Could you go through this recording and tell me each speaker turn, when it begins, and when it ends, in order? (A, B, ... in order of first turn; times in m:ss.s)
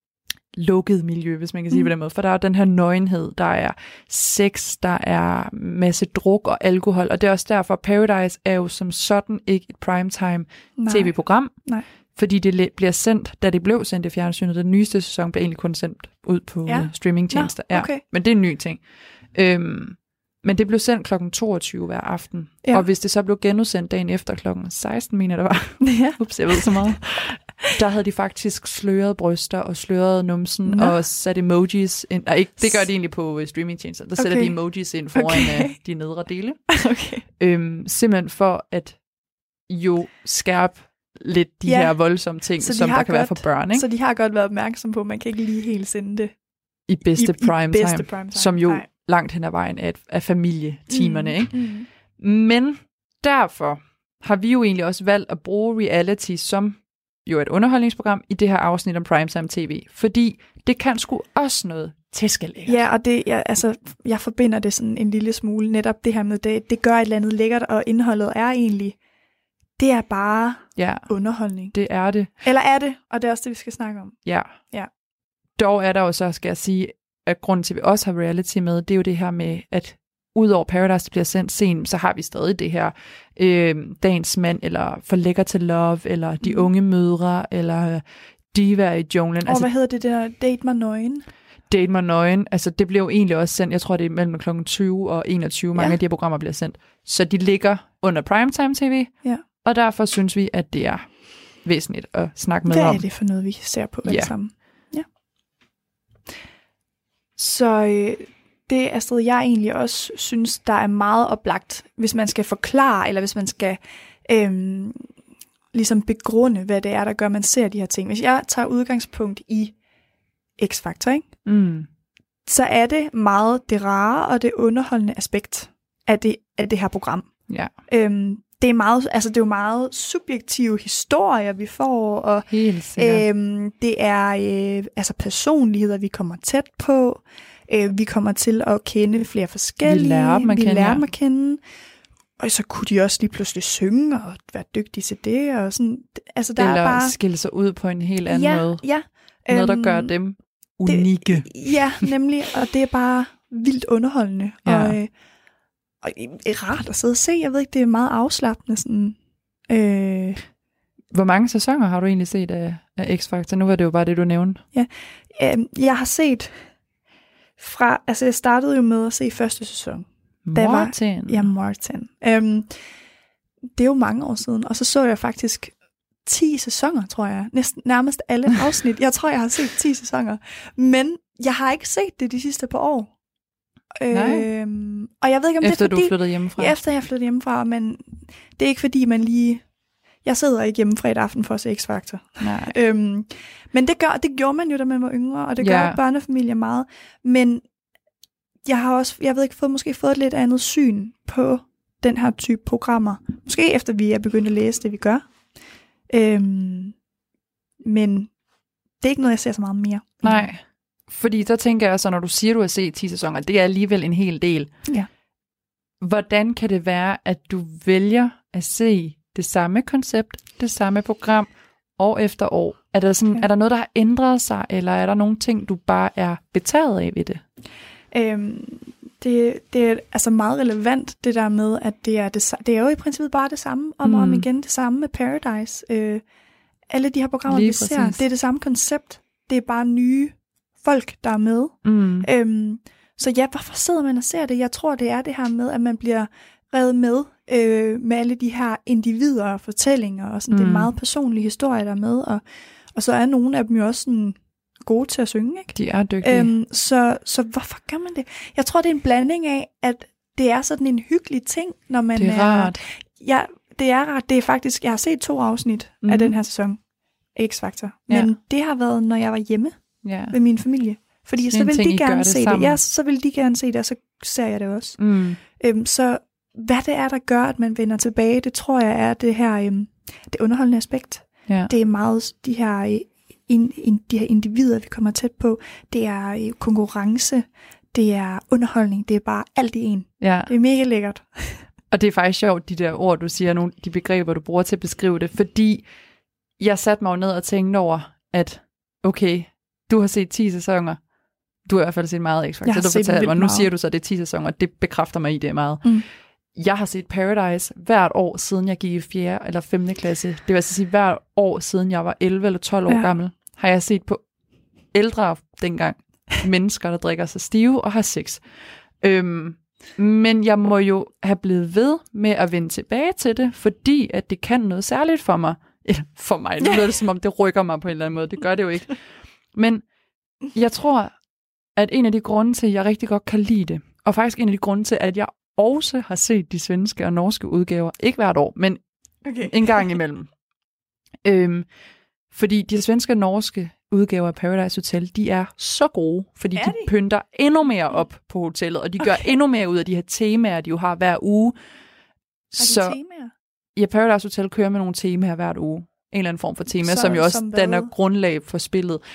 0:00.5-0:36.6 A
0:10.8-0:11.8 B
0:16.6-0:18.0 B
0:25.8-0:26.8 B
0:30.6-0:31.0 B
0:34.2-0:35.8 B
0:36.7-0:37.3 B
0:37.4-0:39.1 A
0:39.6-0:43.9 A
0:41.6-0:46.3 B
0:46.9-1:02.8 A
0:47.2-0:48.9 B
0:50.9-0:51.9 B
1:02.6-1:09.0 B
1:09.8-1:11.7 B
1:10.8-1:12.3 A
1:12.4-1:14.2 B
1:14.2-1:14.6 A
1:15.5-1:29.7 A
1:26.4-1:26.7 B
1:29.4-1:31.2 B
1:31.7-1:43.1 A
1:39.2-1:39.5 B
1:42.7-1:45.0 B
1:44.0-1:44.7 A
1:47.4-1:55.0 B
1:55.7-1:59.8 B
2:00.6-2:01.3 B
2:01.4-2:01.9 A
2:02.4-2:07.4 B
2:07.5-2:07.7 A
2:07.9-2:21.6 B
2:12.5-2:13.2 A
2:19.8-2:21.0 A
2:22.4-2:27.2 B
2:26.6-2:29.0 A
2:28.3-2:30.1 B
2:29.5-2:32.1 A
2:30.8-2:35.1 B
2:34.6-2:35.0 A
2:36.0-2:39.2 B
2:39.7-2:40.5 B
2:41.1-2:44.6 A
2:44.7-2:46.7 B
2:47.6-2:52.7 B
2:50.4-2:51.5 A
2:53.8-3:03.1 B
3:03.9-3:09.6 B
3:04.1-3:04.5 A
3:05.6-3:06.8 A
3:10.2-3:17.6 B
3:12.4-3:12.7 A
3:15.6-3:16.0 A
3:18.6-3:25.2 B
3:26.1-3:26.9 B
3:27.8-3:28.3 B
3:29.0-3:30.4 B
3:30.2-3:34.7 A
3:36.0-3:47.4 A
3:48.1-3:56.2 B
3:54.0-3:54.5 A
3:56.9-4:26.8 B
3:57.5-3:58.2 A
4:01.8-4:02.3 A
4:10.5-4:10.9 A
4:15.7-4:16.5 A
4:22.1-4:22.8 A
4:26.0-4:26.4 A
4:27.3-4:51.7 B
4:28.1-4:28.4 A
4:30.0-4:30.4 A
4:31.4-4:32.8 A
4:35.0-4:35.4 A
4:41.4-4:41.7 A
4:50.2-4:50.5 A
4:51.9-4:55.9 A
4:56.6-5:01.1 A
5:01.6-5:06.0 A
5:02.6-5:03.7 B
5:06.5-5:14.3 A
5:14.9-5:18.5 A
5:19.0-5:29.0 A
5:29.5-5:29.9 A
5:30.5-5:31.2 A
5:31.7-5:38.8 A
5:39.2-5:39.5 B
5:39.4-5:40.3 A
5:41.2-5:41.7 A
5:42.3-5:51.6 A
5:46.5-5:46.9 B
5:52.5-5:53.0 A
5:52.6-5:53.3 B
5:53.7-5:59.0 A
5:56.8-5:57.9 B